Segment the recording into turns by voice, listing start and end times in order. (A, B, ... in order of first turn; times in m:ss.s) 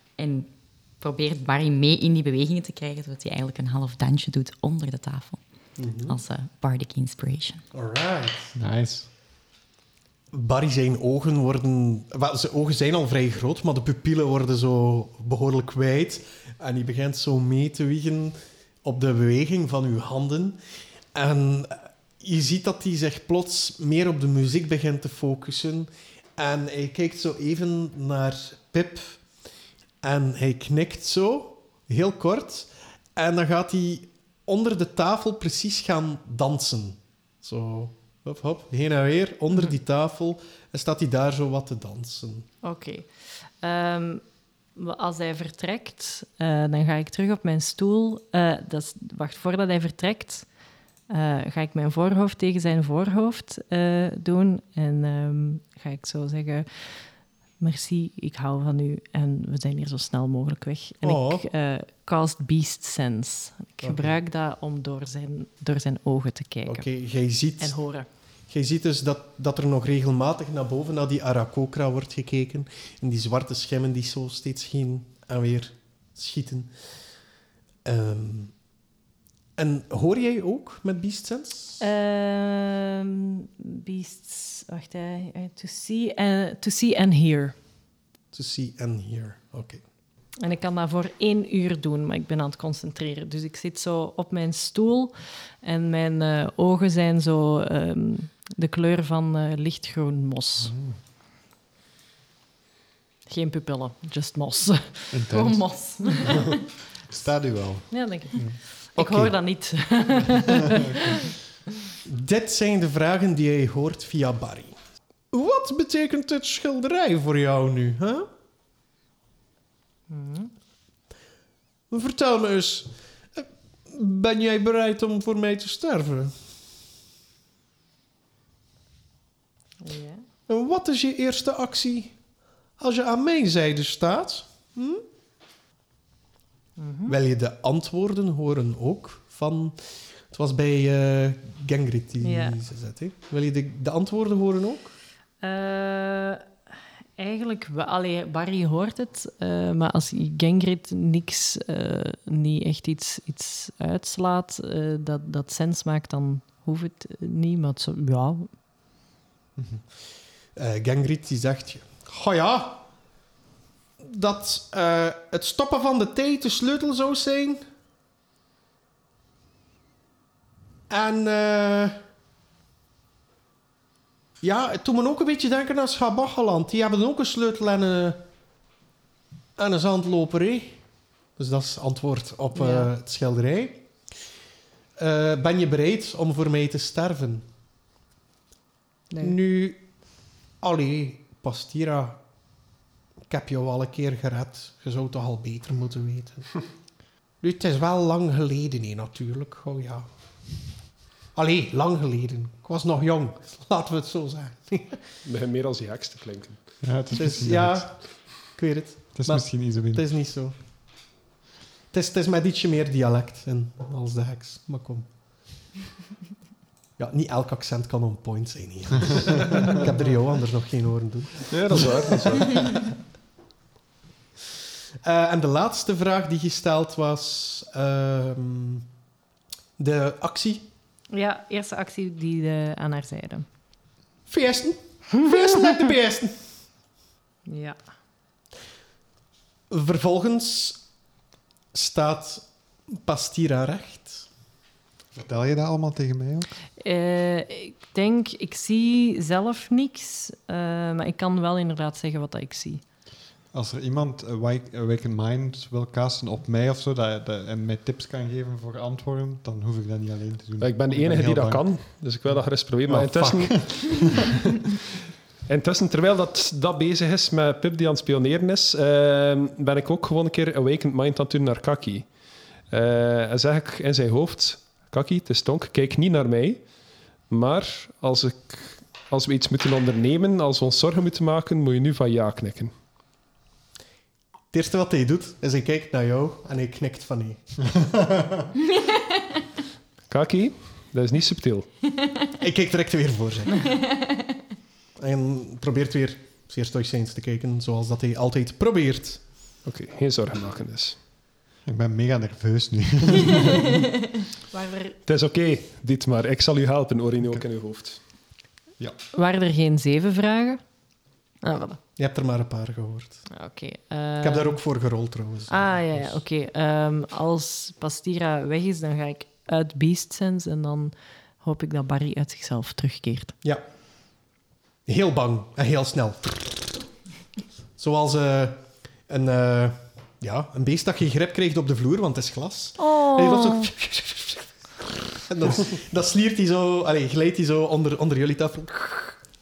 0:00.2-0:05.4 A
0:05.8-0:06.2 B
0:06.1-0:07.6 A
0:07.7-0:08.6 B
0:08.6-0:09.1 C
0:10.3-0:20.6 B
0:21.1-0:29.2 B
0:30.0-0:42.5 B
0:42.6-0:50.5 D
0:51.1-1:06.9 D
1:01.0-1:01.4 B
1:03.8-1:04.2 B
1:06.6-1:07.8 B
1:07.6-1:08.1 D
1:08.5-1:16.7 B
1:17.8-1:18.6 B
1:19.6-1:21.8 B
1:21.8-1:27.6 D
1:28.3-1:29.8 B
1:30.4-1:40.7 D
1:40.6-1:41.0 C
1:43.3-1:45.2 D
1:45.1-1:45.6 C
1:45.3-1:46.6 A
1:46.1-1:46.5 D
1:47.1-1:49.3 C
1:47.9-1:51.3 D
1:52.0-1:54.8 B
1:55.3-1:58.3 B
2:00.1-2:00.5 D
2:01.9-2:06.4 B
2:09.8-2:10.2 D
2:10.5-2:12.1 B
2:12.8-2:15.0 B
2:16.8-2:17.2 D
2:17.1-2:25.0 B
2:22.2-2:22.6 D
2:25.4-2:26.5 D
2:27.2-2:38.5 D
2:39.6-2:39.8 C
2:40.6-2:42.9 B
2:44.0-2:47.6 B
2:50.9-2:52.0 B
2:54.4-2:58.2 B
2:59.6-3:00.8 B
3:01.4-3:03.9 B
3:02.5-3:02.9 D
3:05.0-3:07.5 B
3:09.1-3:09.4 D
3:09.2-3:09.9 B
3:10.6-3:12.2 B
3:13.3-3:16.5 B
3:17.4-3:20.1 B
3:21.3-3:25.0 B
3:25.2-3:26.6 E
3:26.8-3:27.9 C
3:27.1-3:30.5 B
3:29.1-3:30.0 C
3:31.9-3:35.1 B
3:37.0-3:42.8 B
3:41.5-3:42.5 E
3:45.0-3:48.9 B
3:49.8-3:50.7 B
3:51.1-3:53.5 D
3:54.3-3:56.4 B
3:57.4-3:57.8 D
3:59.7-4:00.8 B
4:01.7-4:04.3 B
4:05.1-4:06.5 C
4:06.8-4:12.8 D
4:13.5-4:24.3 C
4:20.6-4:24.3 E
4:25.5-4:32.1 E
4:32.7-4:36.6 E
4:37.3-4:42.7 E
4:44.5-4:47.5 B
4:50.1-4:51.7 E
4:52.4-4:53.7 B
4:55.0-4:59.2 B
4:59.6-5:01.0 E
5:01.6-5:03.7 C
5:04.5-5:05.0 D
5:05.0-5:08.0 E
5:09.1-5:10.6 D
5:11.4-5:11.8 D
5:12.0-5:13.2 B
5:13.3-5:14.6 D
5:14.2-5:16.2 B
5:15.5-5:23.3 D
5:24.9-5:26.6 B
5:27.8-5:39.2 B
5:32.8-5:33.7 D